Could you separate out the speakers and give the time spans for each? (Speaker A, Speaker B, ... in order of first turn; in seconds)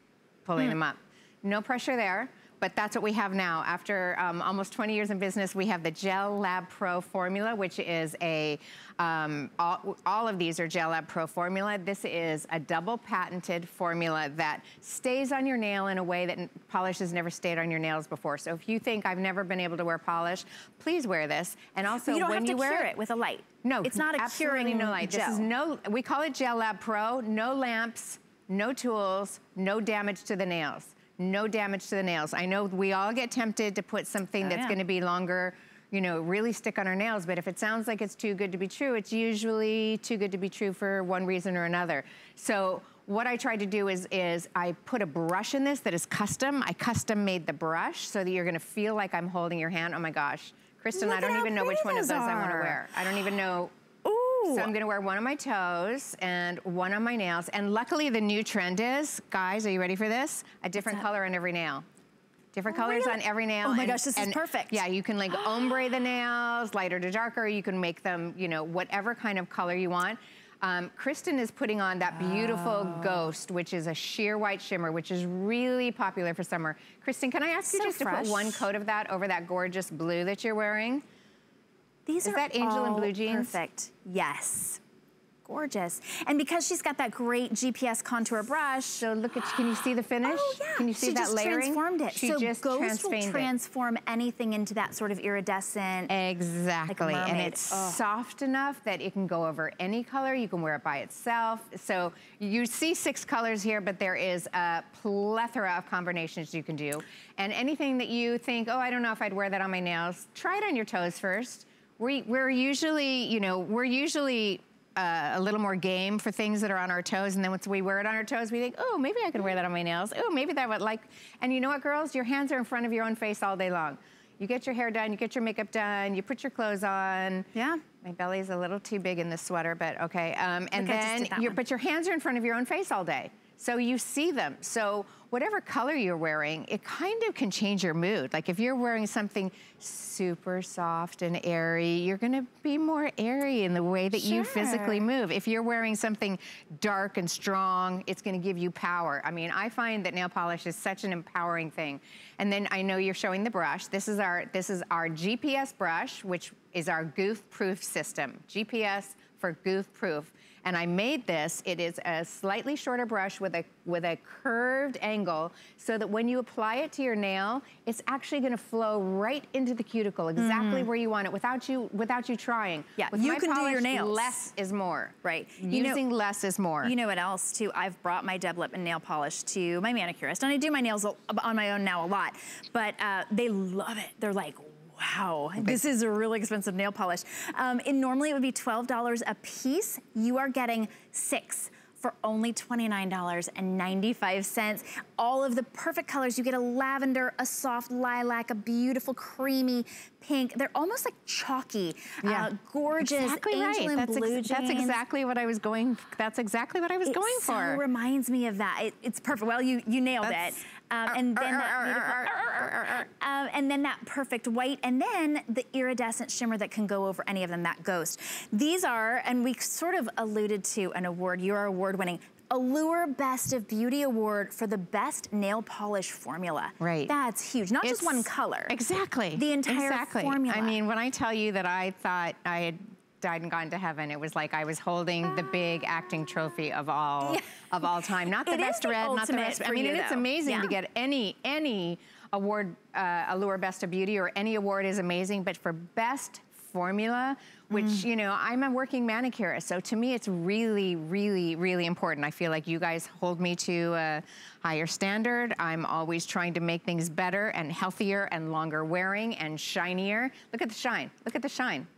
Speaker A: 0.4-22.9, 23.6-53.7, 54.4-61.8, 62.5-81.0, 82.2-83.6, 89.0-93.5, 96.1-127.5, 128.0-176.9, 202.2-207.8, 210.2-210.6, 211.1-213.1, 226.8-227.1, 227.8-261.9
Speaker B: 22.0-25.5, 34.4-34.8, 50.9-52.9, 54.0-54.7, 60.8-61.0, 62.7-64.8, 72.1-73.3, 77.7-78.7, 82.1-84.8, 85.4-89.0, 90.2-96.1, 96.9-98.0, 127.5-127.8, 130.8-131.6, 144.1-145.0, 170.4-170.9, 173.0-174.3, 175.2-176.0, 176.8-205.0, 207.0-228.7, 229.3-230.8, 237.2-240.7, 247.7-248.0